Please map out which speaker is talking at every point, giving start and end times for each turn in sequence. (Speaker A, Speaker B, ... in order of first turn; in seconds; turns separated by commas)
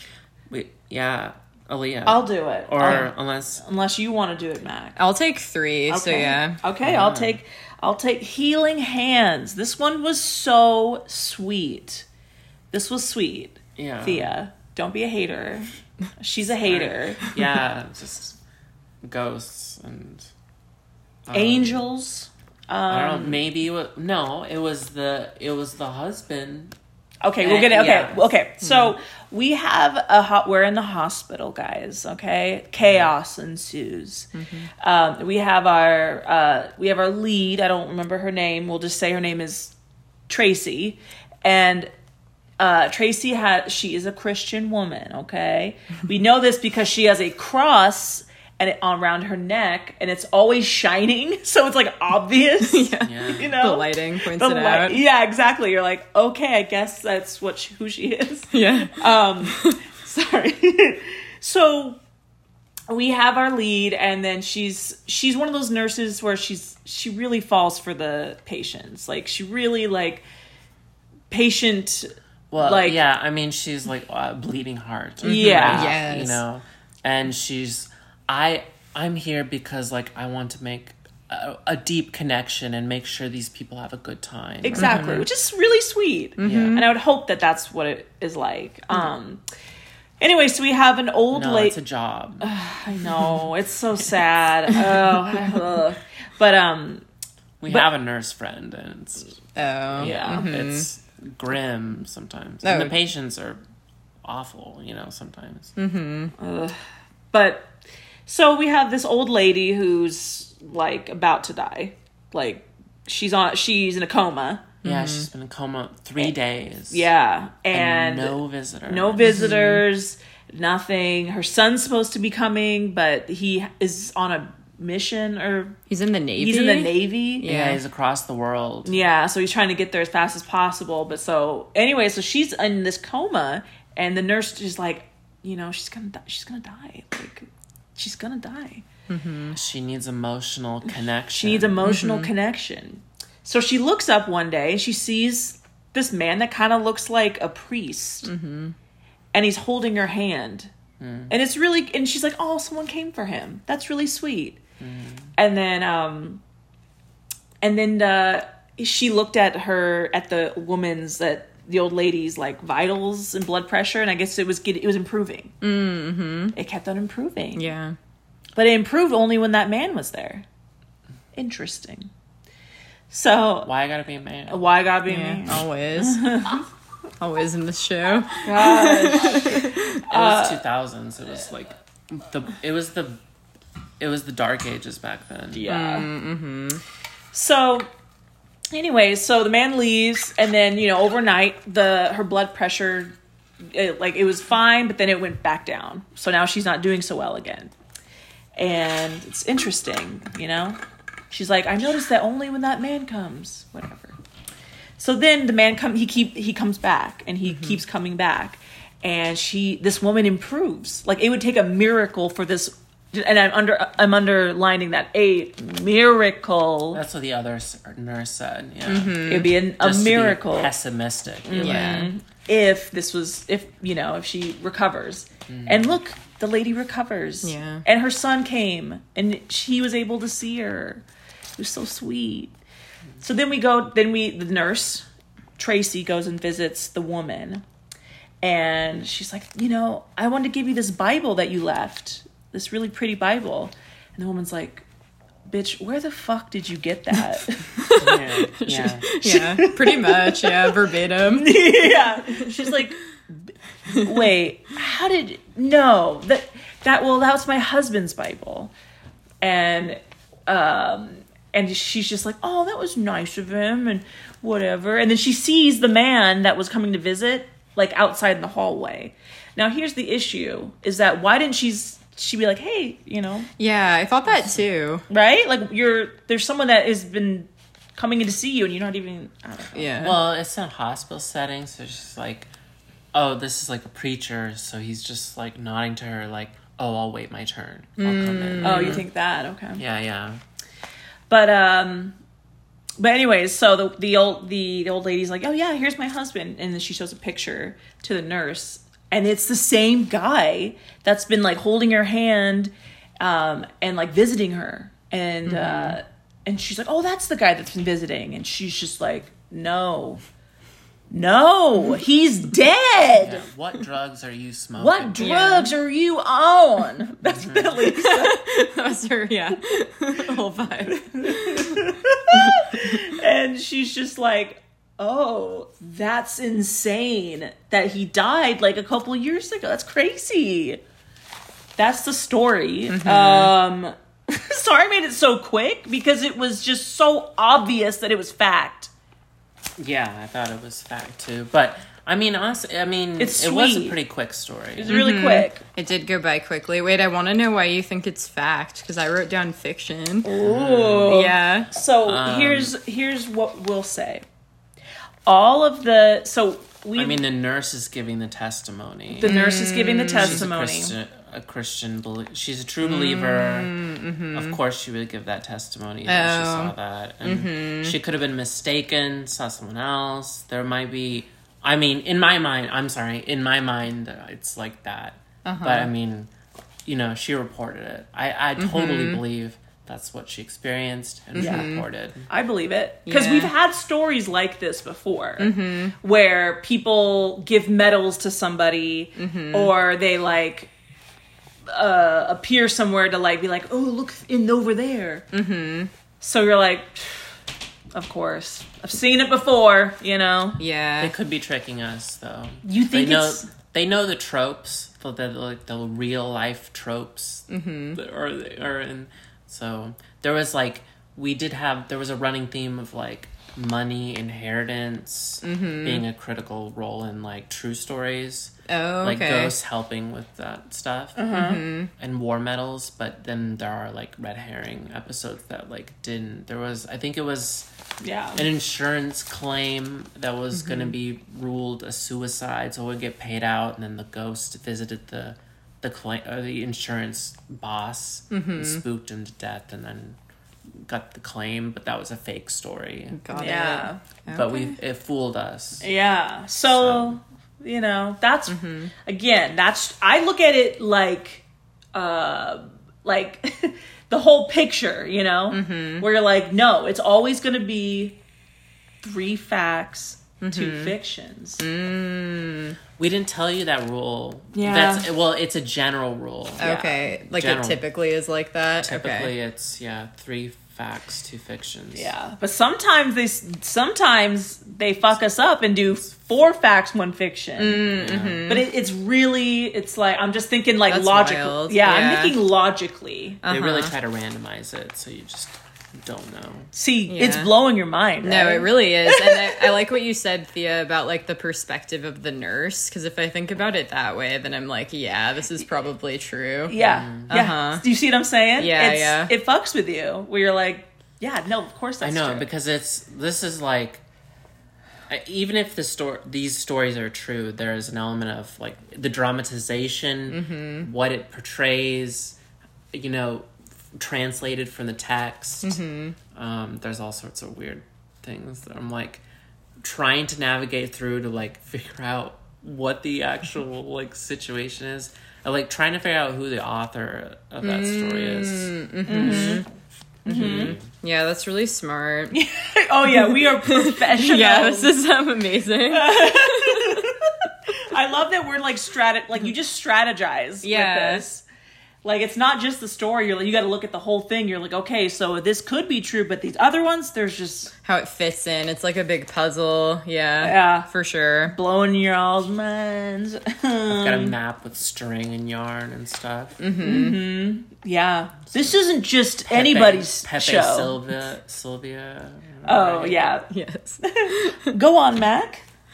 Speaker A: 0.5-3.6, Speaker B: 2.0-3.1, Speaker B: 3.6-5.0, Speaker C: 5.0-6.6, Speaker B: 5.9-12.1, Speaker A: 6.8-7.4, Speaker B: 12.7-17.3, Speaker A: 13.8-14.3, Speaker A: 16.6-18.4, Speaker A: 19.0-20.3, Speaker A: 21.3-21.8, Speaker B: 21.3-23.4, Speaker A: 22.9-26.7, Speaker B: 27.2-34.3, Speaker A: 27.4-28.2, Speaker A: 32.8-33.1, Speaker C: 34.4-34.7, Speaker B: 34.8-39.7, Speaker B: 40.3-41.9, Speaker B: 42.6-62.0, Speaker C: 52.7-55.0, Speaker A: 53.0-53.5, Speaker C: 58.5-59.8, Speaker B: 62.9-70.2, Speaker B: 71.3-73.0, Speaker A: 72.5-85.1, Speaker B: 75.2-75.9, Speaker C: 75.2-76.4, Speaker B: 84.6-89.4, Speaker C: 84.7-85.2, Speaker C: 86.4-86.9, Speaker A: 86.4-86.8, Speaker B: 90.2-91.8, Speaker A: 91.3-92.5, Speaker B: 92.4-97.0, Speaker A: 97.6-99.4, Speaker C: 99.5-100.9, Speaker A: 99.9-103.6, Speaker B: 100.0-100.5, Speaker C: 102.6-103.0, Speaker A: 104.2-105.7, Speaker C: 105.8-106.3, Speaker B: 106.4-106.8, Speaker B: 107.3-107.7, Speaker B: 108.2-114.7, Speaker C: 114.8-115.3, Speaker A: 114.8-117.1, Speaker B: 116.9-125.8, Speaker A: 117.7-119.5, Speaker C: 119.2-119.8, Speaker C: 125.9-127.8, Speaker B: 126.4-127.4, Speaker A: 127.5-129.0, Speaker B: 128.8-138.9, Speaker C: 139.1-139.6, Speaker A: 139.5-141.8, Speaker B: 141.3-148.3, Speaker C: 141.8-142.3, Speaker C: 148.2-148.7, Speaker B: 149.3-150.7, Speaker A: 151.0-151.3, Speaker B: 151.3-154.6, Speaker A: 154.8-155.3, Speaker B: 155.4-156.4, Speaker B: 157.6-165.5, Speaker C: 165.6-166.5, Speaker B: 166.5-167.6, Speaker C: 167.6-167.9, Speaker B: 168.6-170.4, Speaker B: 171.3-172.1, Speaker B: 173.1-173.7, Speaker A: 173.6-174.6, Speaker B: 174.5-176.6, Speaker C: 175.1-176.5, Speaker C: 177.2-180.0, Speaker B: 178.4-180.6, Speaker A: 180.1-183.2, Speaker A: 184.0-185.6, Speaker B: 185.5-186.1, Speaker C: 185.7-186.8, Speaker B: 187.3-187.9, Speaker B: 188.7-197.7, Speaker B: 198.6-200.8, Speaker B: 201.3-204.2, Speaker B: 205.0-217.0, Speaker C: 207.4-207.8, Speaker A: 216.9-219.3, Speaker C: 218.9-219.6, Speaker B: 219.3-220.7, Speaker A: 219.8-222.1, Speaker B: 221.4-231.0, Speaker C: 221.6-222.1, Speaker A: 225.5-225.9, Speaker C: 227.4-227.8, Speaker B: 231.6-232.5, Speaker B: 233.2-235.1, Speaker B: 235.6-237.6, Speaker B: 238.4-244.8, Speaker B: 245.5-247.6, Speaker C: 247.8-252.4, Speaker A: 247.9-249.1, Speaker B: 249.2-253.0, Speaker B: 253.9-258.7, Speaker B: 259.4-273.5, Speaker C: 273.6-275.1, Speaker A: 274.3-274.6, Speaker B: 275.1-280.0, Speaker C: 279.7-280.2, Speaker A: 279.9-282.5, Speaker A: 283.1-289.0, Speaker C: 288.0-289.0, Speaker B: 288.6-289.8, Speaker A: 289.8-290.4, Speaker B: 291.3-292.2, Speaker B: 293.0-310.2, Speaker C: 305.4-306.0, Speaker B: 311.1-313.4, Speaker A: 313.2-315.2, Speaker B: 314.8-318.4, Speaker C: 315.2-315.7, Speaker A: 317.2-317.8, Speaker C: 317.9-323.0, Speaker B: 320.9-330.8, Speaker B: 331.8-338.9, Speaker C: 332.9-333.5, Speaker A: 339.8-345.0, Speaker B: 343.2-344.0, Speaker B: 344.8-345.6, Speaker C: 344.9-350.3, Speaker B: 350.2-354.2, Speaker A: 350.4-351.2, Speaker C: 351.1-351.7, Speaker A: 352.0-352.7, Speaker B: 355.2-357.2, Speaker A: 356.9-359.3, Speaker B: 359.1-360.9, Speaker C: 359.2-360.5, Speaker A: 360.1-363.7, Speaker C: 362.8-364.6, Speaker A: 364.3-376.3, Speaker C: 366.1-368.0, Speaker C: 375.4-375.9, Speaker A: 376.9-382.3, Speaker C: 378.6-379.2, Speaker C: 381.4-381.9, Speaker B: 381.4-381.7, Speaker B: 382.3-390.7, Speaker C: 383.1-383.5, Speaker C: 385.4-385.9, Speaker C: 389.2-389.7, Speaker B: 391.7-395.2, Speaker C: 395.3-395.9, Speaker B: 396.2-397.3, Speaker B: 397.9-400.6, Speaker C: 400.6-401.1, Speaker A: 401.0-421.2, Speaker B: 402.6-403.5, Speaker C: 407.5-408.0, Speaker C: 415.4-416.0, Speaker C: 418.7-419.5, Speaker B: 421.1-421.6, Speaker C: 421.3-421.9, Speaker A: 422.0-427.7, Speaker B: 428.0-428.4, Speaker A: 428.4-440.2, Speaker C: 430.6-430.9, Speaker C: 438.3-438.8, Speaker A: 440.8-443.2, Speaker C: 443.1-444.7, Speaker B: 443.3-444.0, Speaker A: 444.3-445.9, Speaker B: 445.8-458.2, Speaker A: 446.7-447.2, Speaker C: 448.5-448.9, Speaker C: 455.5-456.1, Speaker B: 459.0-461.6, Speaker C: 460.4-460.9, Speaker C: 461.6-462.8, Speaker A: 463.0-466.7, Speaker B: 464.5-465.1, Speaker C: 466.6-469.3, Speaker B: 466.6-466.9, Speaker A: 467.3-467.8, Speaker A: 468.8-472.1, Speaker B: 471.9-477.9, Speaker C: 477.6-478.7, Speaker A: 477.9-478.5, Speaker B: 478.5-483.4, Speaker C: 480.9-482.4, Speaker C: 483.4-483.9, Speaker A: 483.5-486.7, Speaker B: 486.7-489.6, Speaker C: 487.1-487.5, Speaker C: 488.2-496.8, Speaker B: 496.7-502.5, Speaker A: 496.8-497.3, Speaker C: 497.3-497.8, Speaker C: 498.6-499.3, Speaker A: 502.0-504.0, Speaker A: 505.1-512.4, Speaker C: 510.3-510.9, Speaker A: 512.9-515.8, Speaker C: 515.6-516.2, Speaker A: 516.3-519.2, Speaker A: 519.8-529.5, Speaker C: 527.6-529.6, Speaker B: 529.1-529.6, Speaker B: 530.2-530.7, Speaker C: 530.2-532.4, Speaker A: 530.3-530.9, Speaker B: 532.3-534.9, Speaker C: 533.1-537.1, Speaker B: 535.9-541.4, Speaker C: 540.6-541.2, Speaker B: 542.0-547.7, Speaker C: 547.8-551.5, Speaker B: 550.4-550.9, Speaker B: 551.5-554.4, Speaker A: 553.9-556.6, Speaker C: 556.6-557.2, Speaker B: 556.8-561.0, Speaker A: 559.5-563.3, Speaker B: 562.6-563.5, Speaker C: 563.5-564.7, Speaker B: 564.0-565.6